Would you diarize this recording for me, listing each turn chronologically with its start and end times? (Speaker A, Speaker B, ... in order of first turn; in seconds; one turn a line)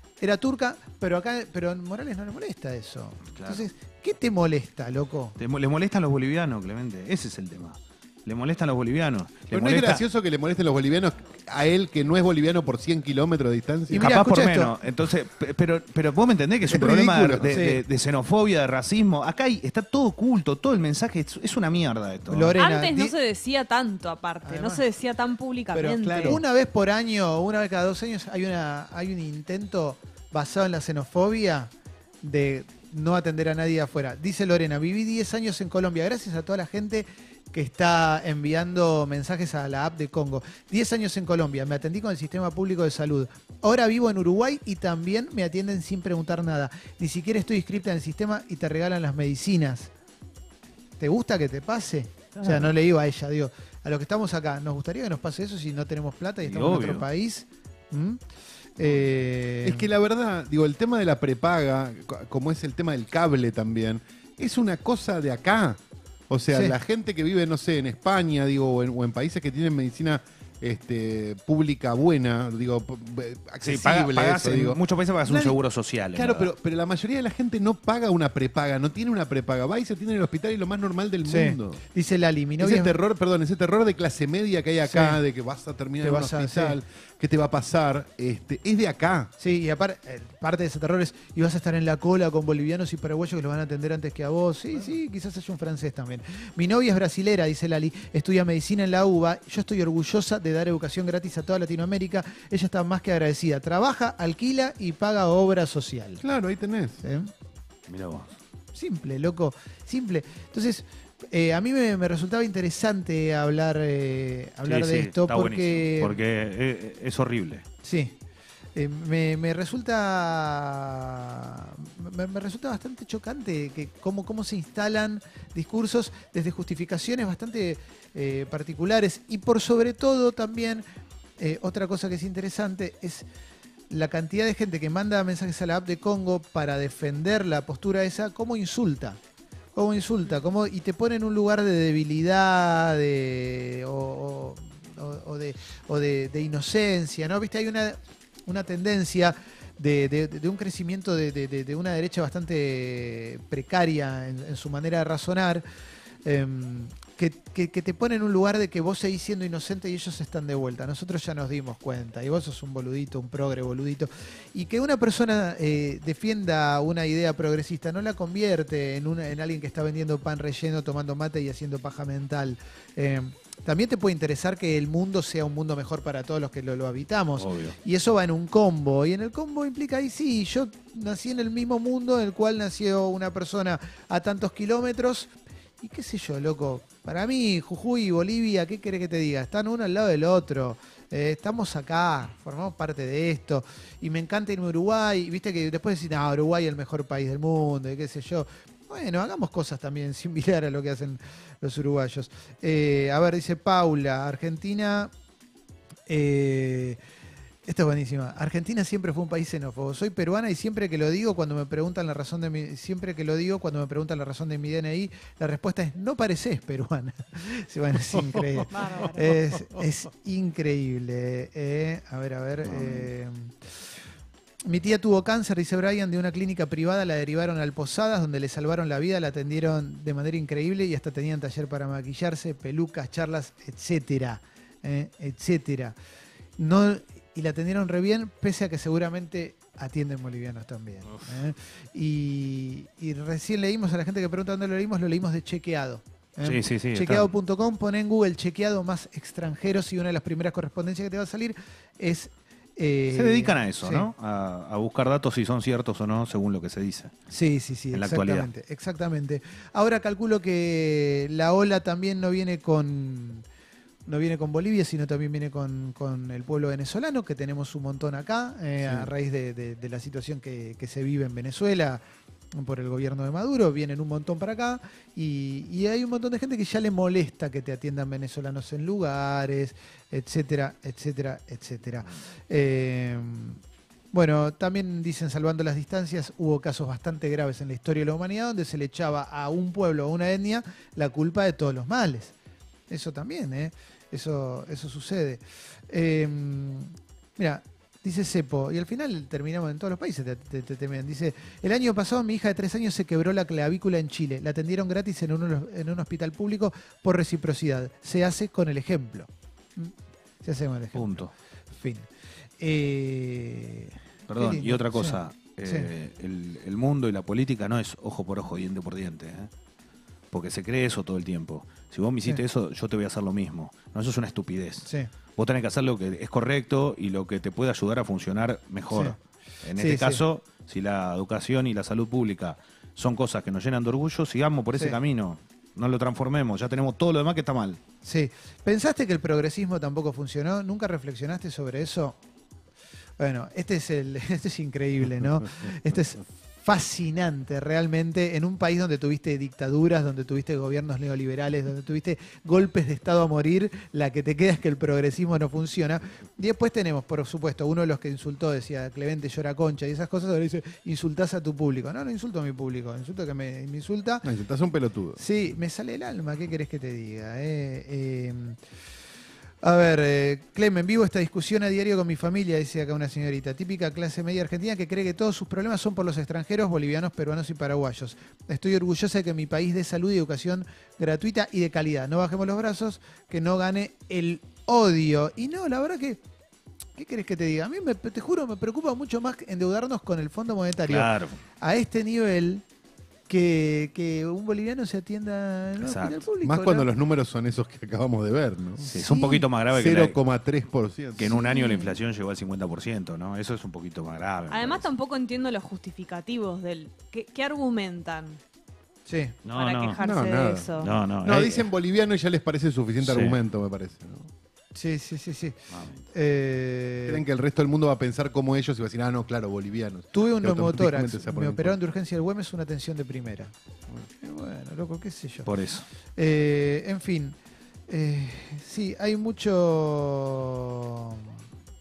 Speaker A: 0.2-5.3
Speaker B: 3.3-3.6
Speaker B: 5.4-10.0
Speaker C: 9.5-14.1
Speaker A: 13.9-14.7
Speaker B: 13.9-22.6
Speaker C: 16.7-17.5
Speaker A: 17.5-17.8
Speaker A: 22.3-23.1
Speaker D: 22.6-26.4
Speaker A: 24.4-24.8
Speaker A: 25.7-31.7
Speaker A: 32.2-49.9
Speaker A: 51.0-58.2
Speaker B: 56.4-57.0
Speaker A: 58.8-59.9
Speaker C: 59.6-75.6
Speaker A: 66.5-66.8
Speaker B: 73.6-76.5
Speaker C: 76.1-81.8
Speaker A: 81.2-82.9
Speaker C: 82.6-89.3
Speaker A: 84.8-85.2
Speaker A: 86.0-86.8
Speaker A: 89.4-106.2
Speaker C: 106.2-107.0
Speaker A: 107.0-107.3
Speaker B: 107.9-108.3
Speaker A: 108.7-116.2
Speaker B: 114.6-117.7
Speaker A: 117.8-118.1
Speaker A: 118.7-130.8
Speaker A: 131.4-133.2
Speaker A: 133.9-139.2
Speaker A: 139.7-155.6
Speaker A: 156.2-205.1
Speaker B: 177.4-177.8
Speaker A: 206.1-207.0
Speaker A: 207.7-223.7
Speaker D: 218.7-219.3
Speaker B: 222.6-223.1
Speaker A: 224.6-235.9
Speaker A: 236.6-254.1
Speaker B: 246.4-247.3
Speaker B: 253.1-257.1
Speaker A: 257.3-263.4
Speaker B: 257.9-258.5
Speaker A: 264.1-272.0
Speaker A: 272.5-283.6
Speaker A: 284.1-292.3
Speaker A: 292.9-312.1
Speaker B: 310.9-311.3
Speaker A: 312.6-315.9
Speaker B: 314.3-319.5
Speaker B: 320.3-337.8
Speaker A: 328.9-329.2
Speaker A: 329.8-330.2
Speaker A: 334.7-335.0
Speaker A: 338.0-342.2
Speaker A: 343.2-364.2
Speaker C: 364.2-365.2
Speaker A: 365.2-368.6
Speaker A: 369.6-386.2
Speaker A: 386.9-391.1
Speaker B: 390.9-391.4
Speaker A: 391.6-392.6
Speaker A: 393.3-396.9
Speaker B: 395.8-396.2
Speaker C: 396.4-398.9
Speaker A: 398.8-399.4
Speaker B: 398.9-400.1
Speaker C: 399.7-401.8
Speaker B: 401.2-404.9
Speaker D: 404.5-408.4
Speaker A: 409.1-409.4
Speaker B: 409.4-410.0
Speaker D: 409.5-410.9
Speaker C: 410.0-414.3
Speaker B: 410.8-411.7
Speaker B: 413.0-413.4
Speaker A: 414.7-415.6
Speaker B: 415.7-416.0
Speaker A: 416.1-417.2
Speaker C: 417.1-421.8
Speaker A: 420.1-423.5
Speaker A: 424.2-425.5
Speaker B: 425.4-425.9
Speaker A: 426.1-427.4
Speaker A: 427.9-431.4